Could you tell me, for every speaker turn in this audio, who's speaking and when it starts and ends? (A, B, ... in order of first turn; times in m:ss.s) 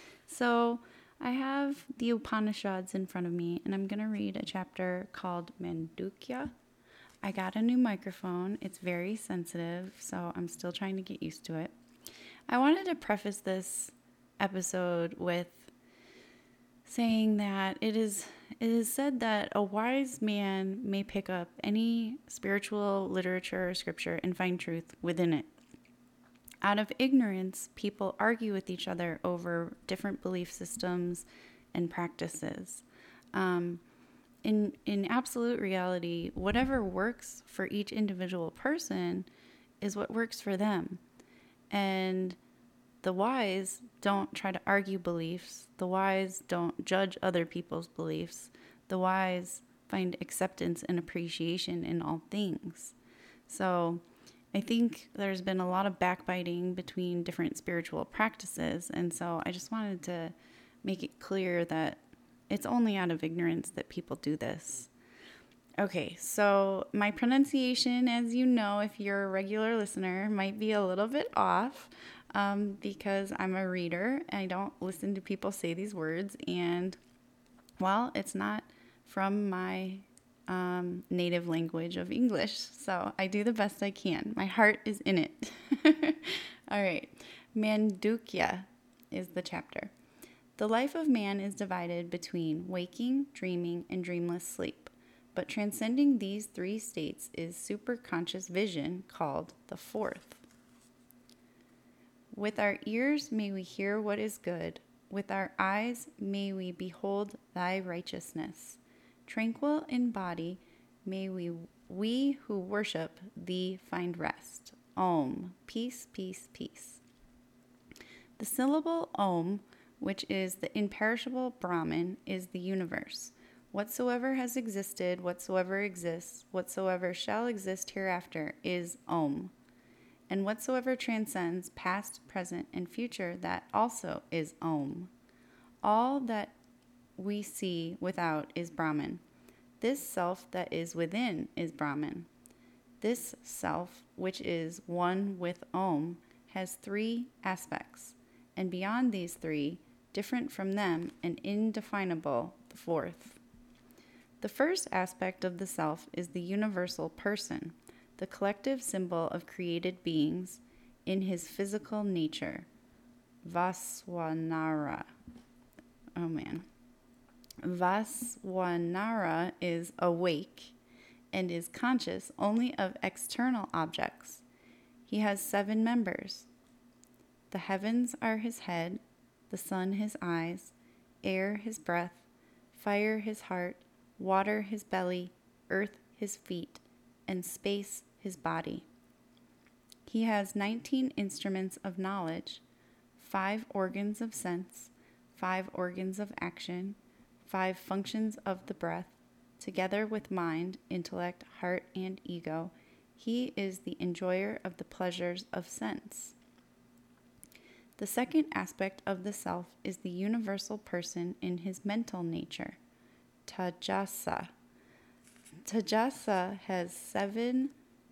0:00.3-0:06.5 A
0:07.2-0:11.7 A
0:12.5-0:15.7 A
0:16.9-0:25.5 A
0:26.6-0:33.8 A
0:34.4-0:39.3 A
0:39.8-0:41.0 A
0:41.7-0:42.4 A
0:43.0-0:53.0 A
0:53.5-1:04.9 A
1:05.8-1:17.0 A
1:17.8-1:29.9 A
1:30.6-1:40.4 A
1:42.3-1:57.0 A
1:58.4-2:09.5 A
2:10.3-2:15.1 A
2:15.8-2:16.6 A
2:17.2-2:19.2 A
2:19.8-2:22.3 A
2:23.0-2:33.4 A
2:34.4-2:42.7 A
2:43.4-2:45.1 A
2:46.2-2:46.7 A
2:47.6-2:50.8 A
2:51.3-2:54.4 A
2:55.1-2:56.5 A
2:57.5-3:08.9 A
3:10.1-3:12.6 A
3:13.2-3:26.4 A
3:28.0-3:32.8 A
3:33.5-3:34.5 A
3:35.6-3:37.7 A